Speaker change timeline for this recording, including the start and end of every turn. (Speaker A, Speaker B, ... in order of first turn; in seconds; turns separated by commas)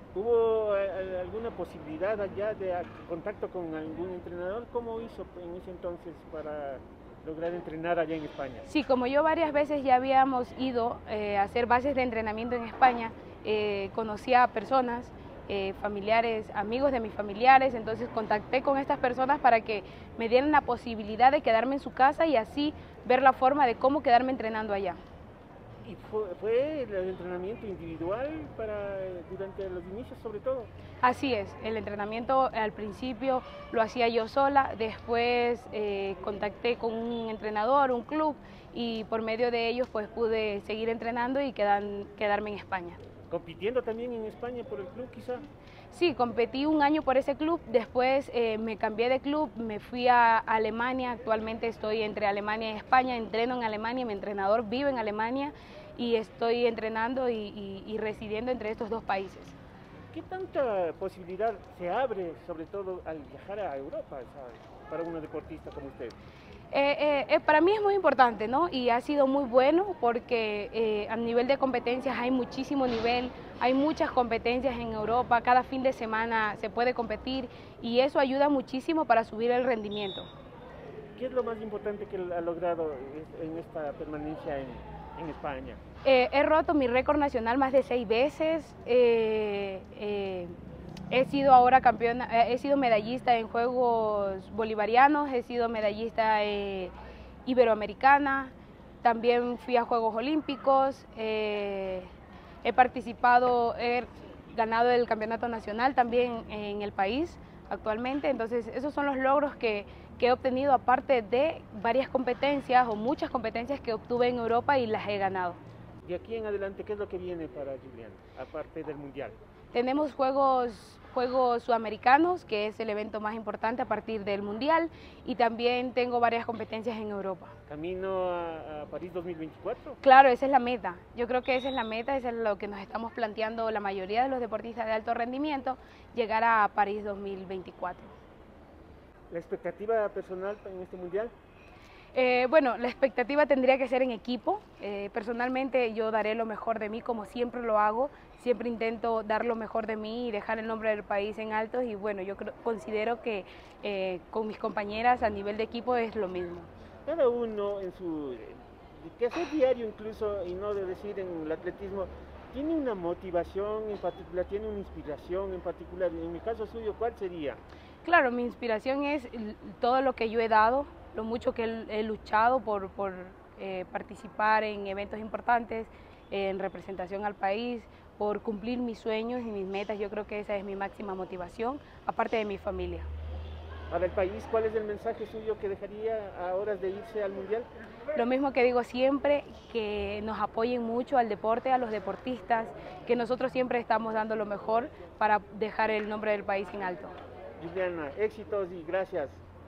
Speaker A: 0.1-8.7, Speaker B: 8.7-25.0, Speaker A: 25.9-30.7, Speaker B: 31.0-43.0, Speaker A: 43.3-45.5, Speaker B: 45.9-59.6, Speaker A: 60.1-66.2, Speaker B: 66.7-80.3, Speaker A: 81.2-85.8, Speaker B: 86.0-90.5, Speaker B: 91.1-96.9, Speaker B: 97.5-102.1, Speaker B: 102.6-115.6, Speaker A: 116.0-119.4, Speaker B: 119.7-127.6, Speaker A: 127.7-130.0, Speaker B: 130.0-138.1, Speaker A: 139.3-141.3, Speaker B: 142.2-156.7, Speaker A: 157.1-167.6, Speaker B: 168.0-183.1, Speaker A: 183.9-187.7, Speaker B: 188.2-197.1, Speaker A: 197.6-199.4